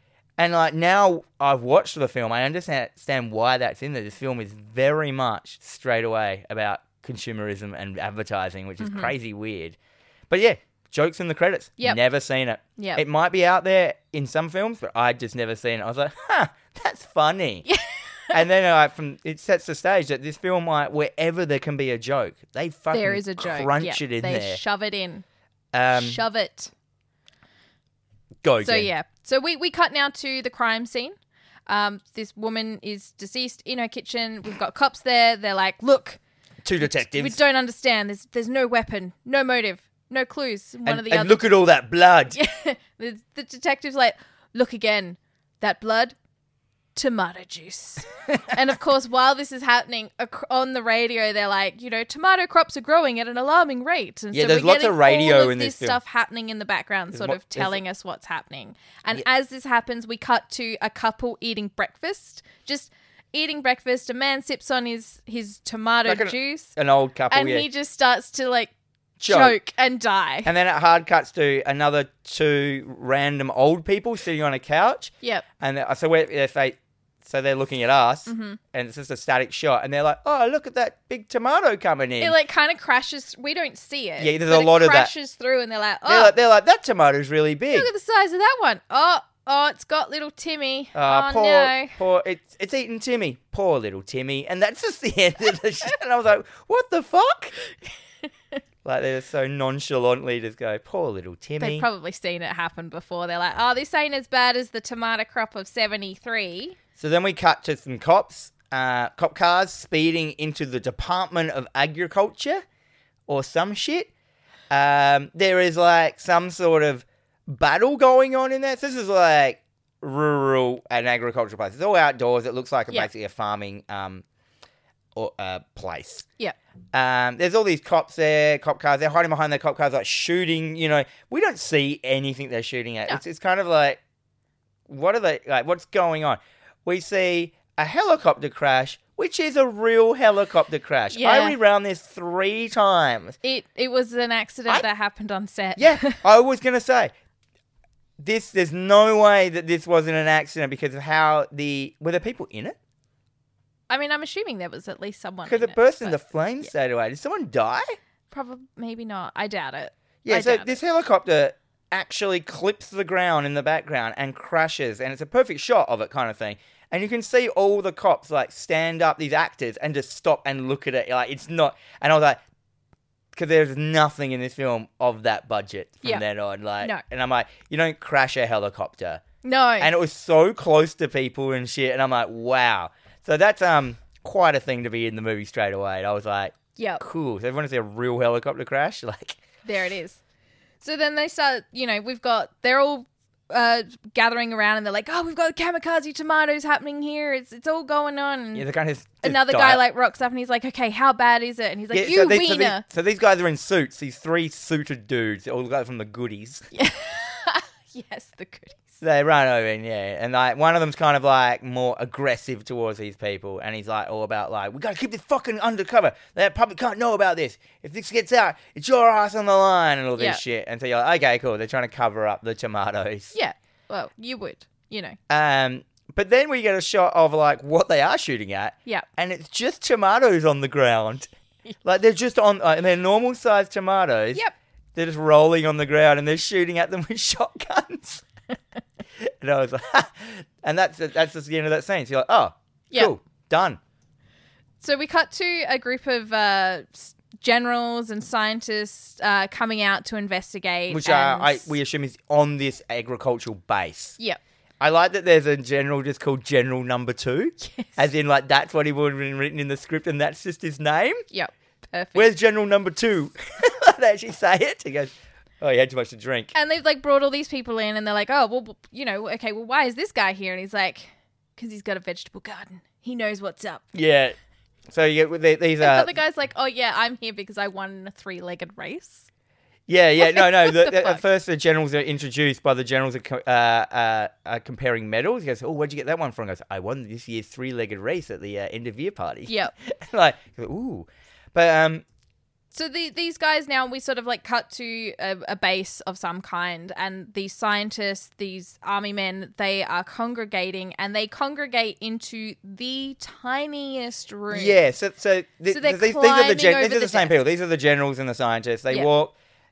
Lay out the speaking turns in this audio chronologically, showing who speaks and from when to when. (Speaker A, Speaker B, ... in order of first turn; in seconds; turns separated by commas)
Speaker A: 0.4-9.8, Speaker B: 8.8-9.1, Speaker A: 10.3-17.6, Speaker B: 12.8-13.0, Speaker B: 17.7-18.4, Speaker A: 18.3-24.6, Speaker B: 22.9-25.2, Speaker A: 25.7-26.2, Speaker B: 25.9-26.7, Speaker A: 28.4-28.9, Speaker B: 28.6-31.2, Speaker B: 31.7-36.2, Speaker A: 36.6-37.4, Speaker B: 36.8-41.5, Speaker A: 40.9-42.4, Speaker B: 42.3-46.2, Speaker B: 47.0-66.7, Speaker A: 54.3-56.0, Speaker A: 57.1-57.8, Speaker A: 66.1-67.7, Speaker B: 67.3-68.7, Speaker A: 69.2-69.6, Speaker B: 69.3-70.5, Speaker A: 70.5-82.4, Speaker B: 78.3-78.6, Speaker B: 82.2-86.3, Speaker A: 84.2-85.1, Speaker A: 86.1-87.9, Speaker B: 87.7-92.0, Speaker A: 90.9-97.5, Speaker A: 98.8-101.9, Speaker B: 101.6-106.8, Speaker A: 107.0-112.6, Speaker A: 113.3-114.1, Speaker A: 114.7-124.2, Speaker A: 125.2-126.3, Speaker A: 126.9-134.0, Speaker A: 134.9-143.4, Speaker B: 141.1-141.6, Speaker B: 143.4-146.2, Speaker A: 145.8-147.1, Speaker A: 148.2-152.8, Speaker B: 153.9-156.2, Speaker A: 155.5-158.0, Speaker B: 158.3-160.8, Speaker A: 160.2-172.4, Speaker A: 173.3-179.2, Speaker B: 179.4-179.9, Speaker A: 179.8-189.4, Speaker B: 186.8-187.0, Speaker B: 189.7-190.2, Speaker B: 190.8-198.7, Speaker A: 198.6-199.8, Speaker B: 199.2-202.8, Speaker A: 201.9-206.7, Speaker B: 206.7-208.9, Speaker A: 209.0-223.3, Speaker B: 220.2-220.4, Speaker B: 223.3-225.2, Speaker A: 225.3-231.3, Speaker A: 231.8-234.4, Speaker A: 234.9-238.2, Speaker A: 239.2-243.8, Speaker B: 244.8-251.7, Speaker A: 250.9-254.2, Speaker A: 254.8-261.2, Speaker B: 257.6-257.9, Speaker B: 261.3-262.3, Speaker A: 262.1-266.5, Speaker B: 266.5-273.8, Speaker A: 273.9-274.4, Speaker A: 274.9-276.1, Speaker B: 275.8-279.3, Speaker A: 279.9-292.0, Speaker B: 280.2-281.2, Speaker B: 289.5-289.7, Speaker B: 292.7-304.8, Speaker A: 304.5-309.3, Speaker B: 305.7-307.4